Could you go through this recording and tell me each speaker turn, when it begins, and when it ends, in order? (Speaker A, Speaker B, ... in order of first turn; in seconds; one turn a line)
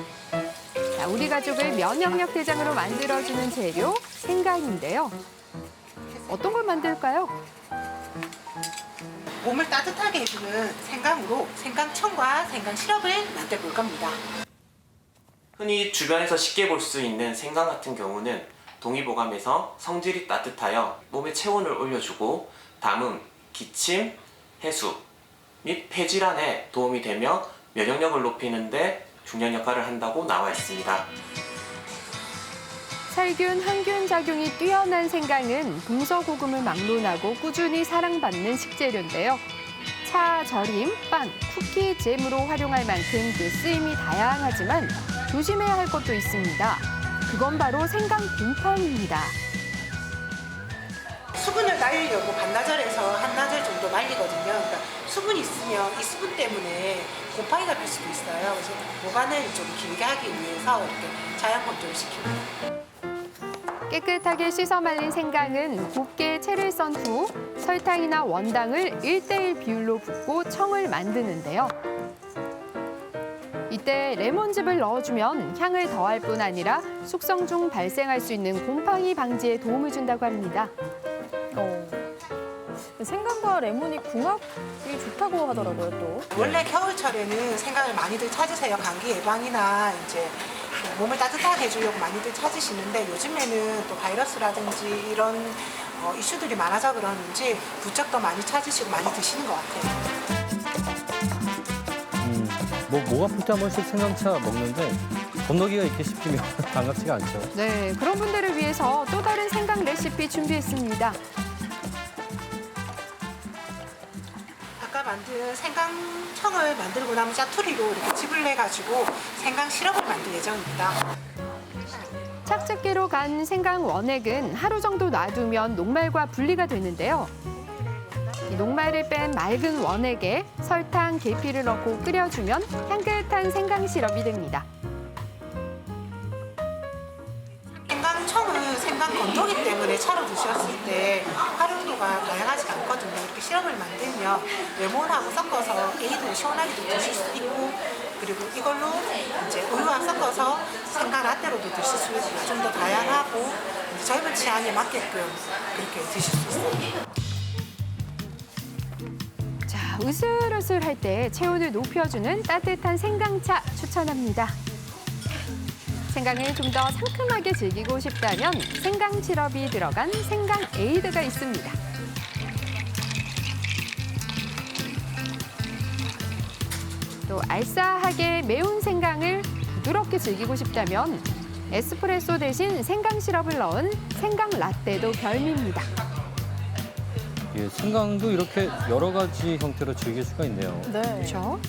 Speaker A: 0.9-5.2
Speaker B: 6.1-7.0
Speaker A: 6.3-7.3
Speaker B: 9.4-14.2
Speaker C: 15.6-25.0
Speaker C: 25.6-31.1
Speaker A: 33.1-39.4
Speaker A: 40.0-49.4
Speaker B: 51.4-62.4
Speaker A: 63.9-71.7
Speaker A: 73.7-80.7
Speaker D: 81.5-81.9
Speaker D: 83.0-86.2
Speaker B: 86.3-99.9
Speaker E: 86.3-86.6
Speaker E: 102.2-107.5
Speaker A: 107.5-111.2
Speaker B: 114.8-121.0
Speaker A: 122.5-127.3
Speaker B: 127.5-128.7
Speaker A: 128.5-134.7
Speaker B: 137.8-156.8
Speaker A: 159.7-164.5
Speaker A: 166.1-171.8
Speaker A: 177.3-185.9
Speaker E: 187.5-190.9
Speaker D: 190.9-191.4
Speaker A: 191.2-191.6